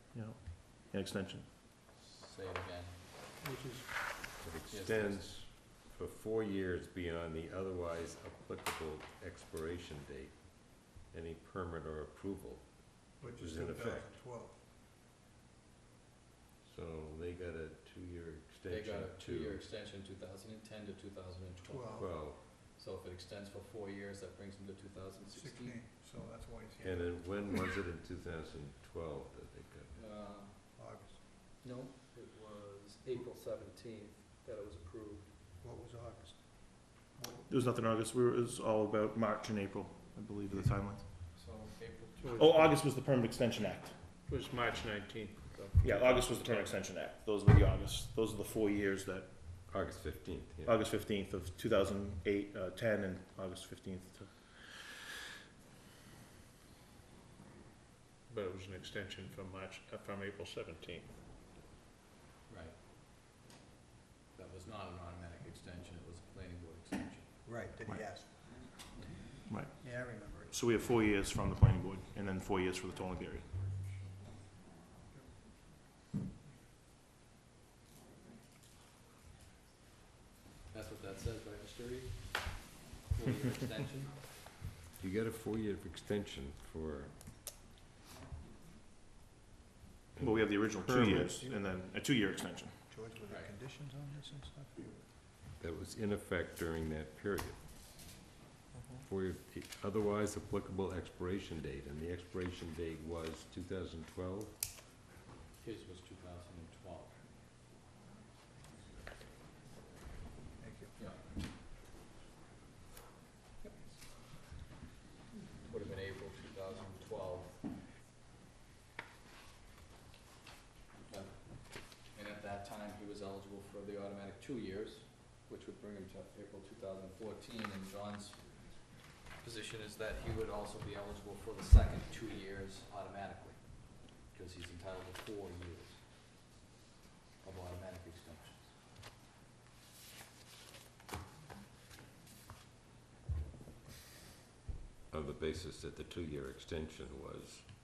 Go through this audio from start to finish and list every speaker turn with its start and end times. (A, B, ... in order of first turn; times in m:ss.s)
0:00.1-0:01.5 A
0:01.9-0:03.0 B
0:03.4-0:04.2 C
0:04.4-0:14.1 D
0:04.7-0:05.4 B
0:13.2-0:14.6 C
0:16.6-0:19.6 D
0:18.7-0:25.9 B
0:21.6-0:22.1 C
0:21.9-0:22.4 D
0:25.3-0:27.4 C
0:26.8-0:29.9 D
0:29.9-0:30.8 B
0:30.8-0:31.2 C
0:31.5-0:35.4 B
0:35.6-0:37.5 C
0:37.5-0:41.0 A
0:41.2-0:42.5 B
0:42.2-0:42.8 E
0:42.4-0:44.0 A
0:44.3-0:46.8 E
0:45.8-0:49.7 A
0:49.7-0:50.8 D
0:50.6-0:55.0 A
0:58.3-1:01.2 E
1:02.5-1:02.8 B
1:04.4-1:07.5 B
1:07.4-1:08.8 C
1:08.8-1:09.1 B
1:09.5-1:09.8 A
1:09.8-1:10.7 C
1:10.3-1:13.8 A
1:20.7-1:24.4 B
1:25.0-1:27.2 D
1:30.2-1:32.8 A
1:30.2-1:31.4 D
1:31.3-1:31.6 C
1:32.9-1:35.1 C
1:33.3-1:33.5 B
1:35.6-1:37.8 D
1:38.7-1:39.0 A
1:39.1-1:44.6 D
1:45.6-1:47.3 B
1:50.6-1:51.0 C
1:51.0-1:51.3 B
1:55.6-1:57.7 B
2:01.1-2:16.5 B
2:17.4-2:18.8 B
2:25.1-2:27.7 D